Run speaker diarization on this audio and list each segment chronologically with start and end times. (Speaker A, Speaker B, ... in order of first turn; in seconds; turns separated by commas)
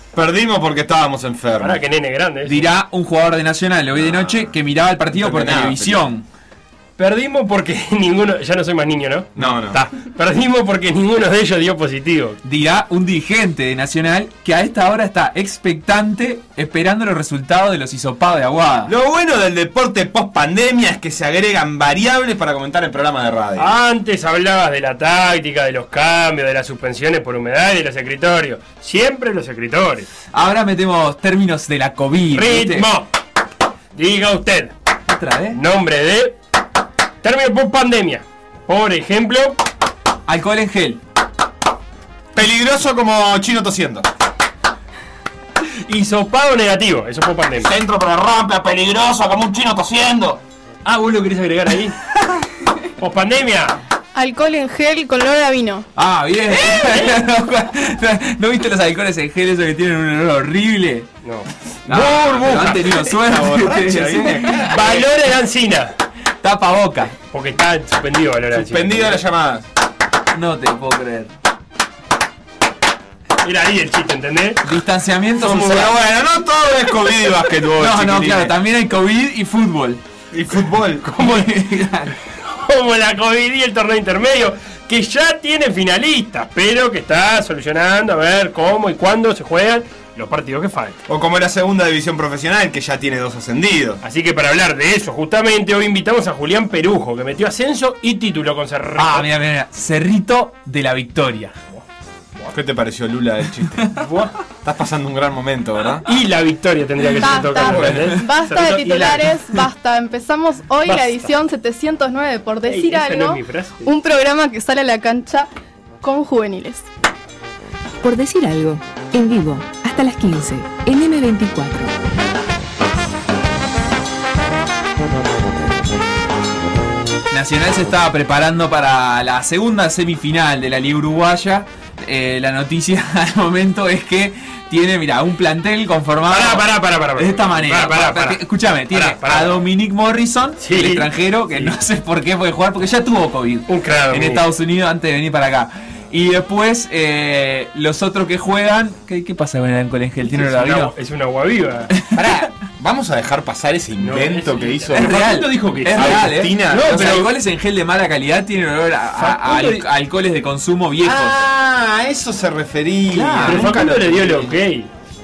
Speaker A: 0.1-1.8, Speaker B: 1.6-2.6, Speaker C: 2.5-6.2, Speaker A: 4.0-4.4, Speaker A: 5.1-6.1, Speaker B: 7.0-12.4, Speaker A: 9.3-9.8, Speaker C: 12.4-18.9, Speaker A: 18.9-23.8, Speaker B: 23.6-30.1, Speaker C: 30.3-32.9, Speaker B: 32.3-33.1, Speaker B: 33.9-34.7, Speaker C: 35.1-35.6, Speaker B: 35.5-36.4, Speaker B: 37.2-39.6, Speaker C: 40.3-41.0, Speaker A: 42.3-44.1, Speaker B: 45.9-47.7, Speaker A: 47.6-50.4, Speaker B: 50.8-52.0, Speaker B: 53.0-53.8, Speaker D: 54.1-55.8, Speaker C: 56.0-61.1, Speaker B: 56.5-57.1, Speaker B: 61.2-62.8, Speaker C: 61.8-64.7, Speaker A: 61.9-65.0, Speaker B: 64.5-65.9, Speaker C: 66.4-67.1, Speaker B: 67.3-69.2, Speaker A: 68.5-69.7, Speaker C: 70.3-71.3, Speaker B: 73.4-74.6, Speaker C: 74.6-76.0, Speaker A: 75.4-78.5, Speaker C: 77.8-80.0, Speaker A: 80.3-81.2, Speaker B: 81.1-81.6, Speaker C: 81.2-82.1, Speaker B: 82.3-91.0, Speaker A: 91.1-94.0, Speaker B: 94.0-99.3, Speaker C: 99.0-101.5, Speaker A: 102.4-104.0, Speaker B: 104.0-104.3, Speaker A: 104.6-106.0, Speaker B: 106.0-109.3, Speaker D: 107.2-115.5, Speaker A: 107.7-108.1, Speaker B: 110.8-111.3, Speaker B: 112.7-113.9, Speaker D: 116.0-116.8, Speaker E: 118.0-121.9, Speaker C: 127.3-150.9, Speaker B: 136.3-139.6, Speaker B: 140.6-141.8, Speaker B: 143.7-144.4, Speaker B: 150.2-151.9, Speaker C: 151.9-152.5, Speaker A: 152.1-157.3, Speaker B: 154.0-157.3, Speaker C: 154.9-161.4, Speaker B: 159.2-159.8, Speaker A: 161.0-164.5, Speaker B: 163.1-164.9, Speaker C: 163.3-163.8